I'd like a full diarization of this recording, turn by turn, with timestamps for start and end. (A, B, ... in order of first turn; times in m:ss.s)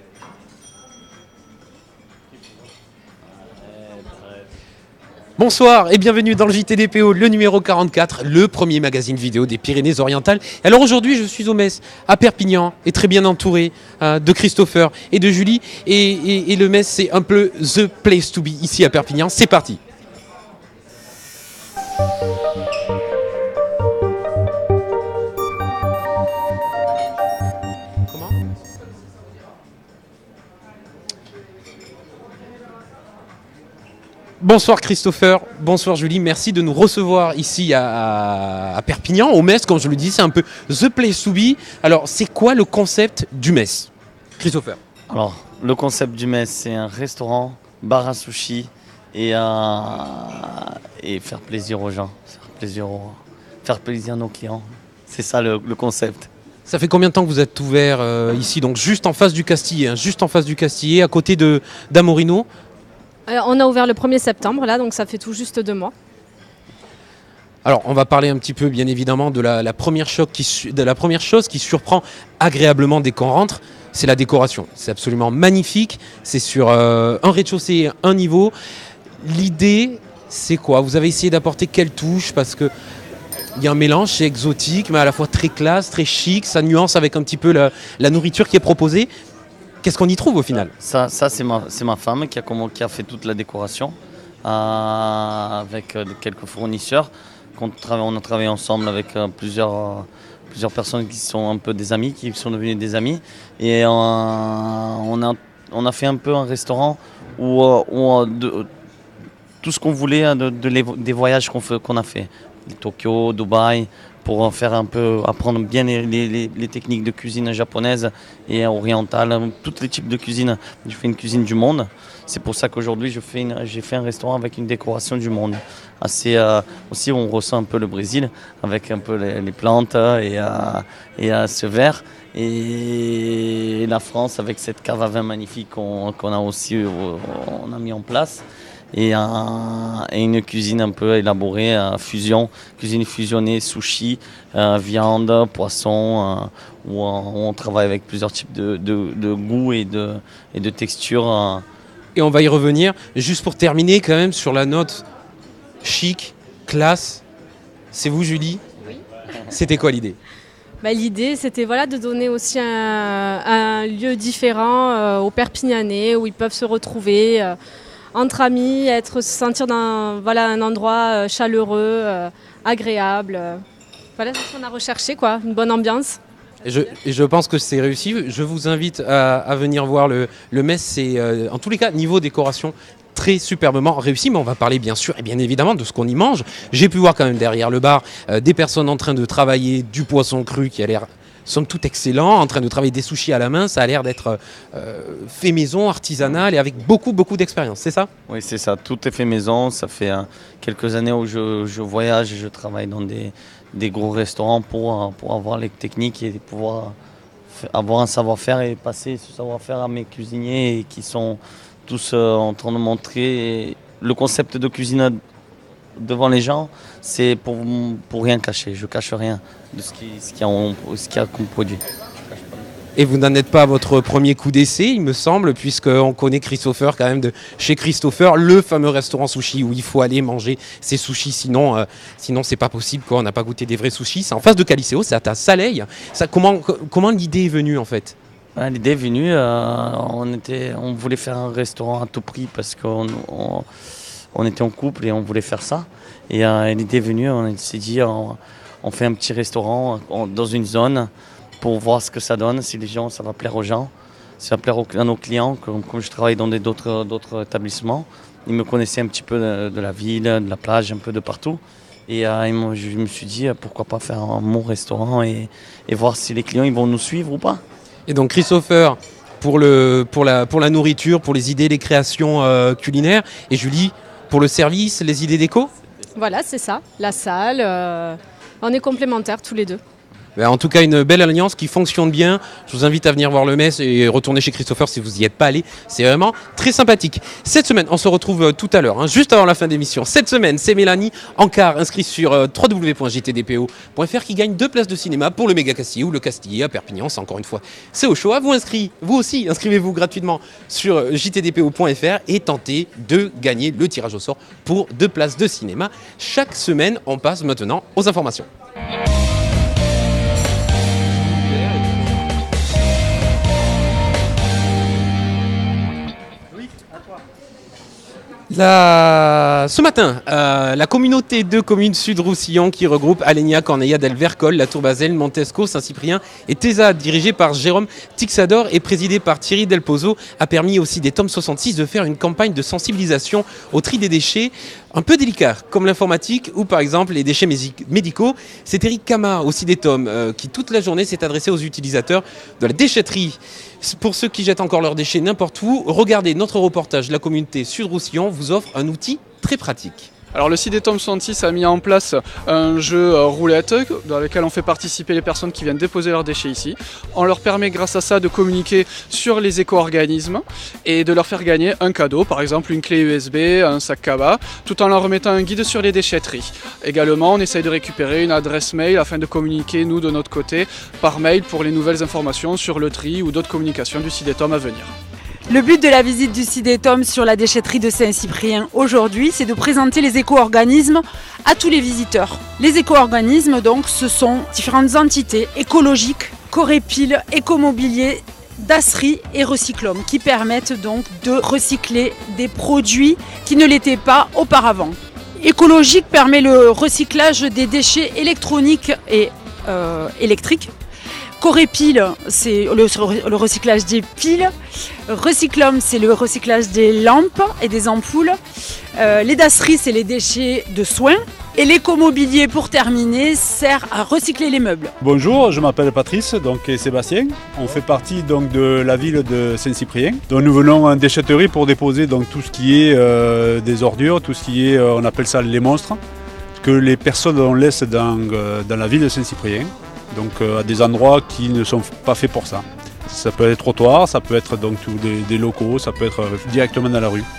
0:05.4-0:19.8 A
0:28.1-0:28.4 A
0:34.4-0:44.8 A
0:45.1-0:56.3 B
0:56.6-1:02.4 A
1:03.3-1:05.9 C
1:07.6-1:18.5 A
1:19.2-1:22.7 A
1:23.6-1:29.1 A
1:29.8-1:30.7 A
1:30.8-1:48.7 B
1:49.6-2:31.6 B
2:32.1-2:35.0 A
2:35.8-2:37.2 A
2:37.9-2:38.6 A
2:39.5-2:40.2 A
2:40.8-2:47.5 C
2:48.1-2:53.6 C
2:54.2-2:56.2 C
2:56.6-3:18.1 A
3:18.3-3:26.9 B
3:27.5-3:35.2 B
3:36.0-3:42.6 B
3:43.0-3:58.2 A
3:58.6-4:03.6 B
4:04.3-4:11.1 B
4:11.6-4:27.6 B
4:28.1-4:35.7 A
4:36.1-4:39.8 C
4:40.4-5:08.5 A
5:18.5-5:50.1 A
5:50.3-6:14.9 D
6:15.5-6:40.7 E
6:41.4-6:44.5 E
6:45.1-6:48.4 E
6:49.0-6:54.9 E
6:55.0-7:06.0 F
7:06.6-7:17.2 F